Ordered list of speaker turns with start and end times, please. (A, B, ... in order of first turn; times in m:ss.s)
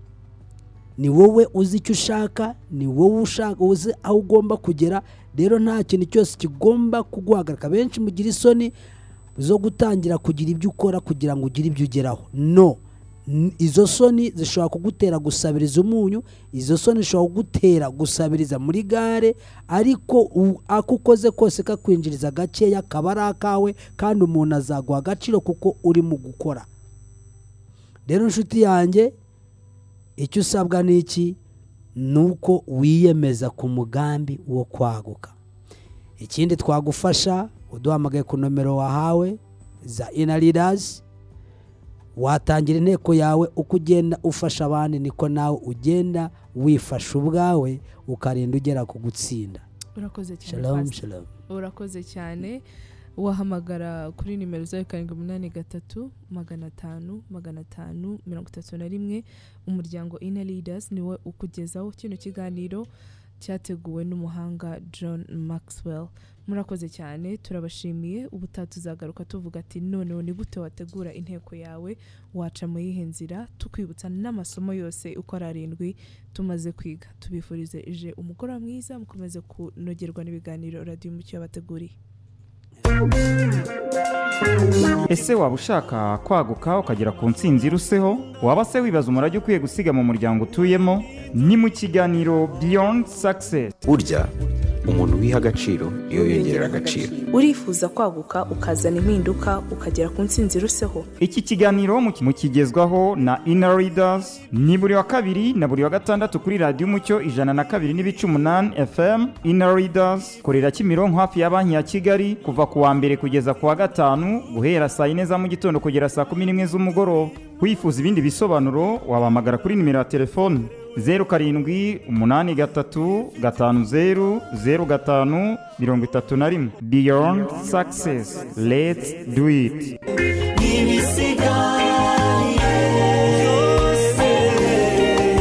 0:01.0-0:08.7 A
0:09.4-0:26.7 A
0:28.1-0:29.1 A
0:30.2-0:31.4 A
0:31.9-0:35.3 A
0:36.2-0:41.0 A
0:42.2-0:49.6 A
0:50.0-0:52.6 B
0:50.4-0:51.3 A
0:53.2-1:02.9 B
1:03.4-1:22.0 B
1:25.1-1:33.7 C
1:33.8-1:34.3 D
1:34.8-1:37.2 D
1:37.3-1:41.1 B
1:41.2-2:10.0 C
2:10.6-2:12.8 E
2:13.8-2:14.9 E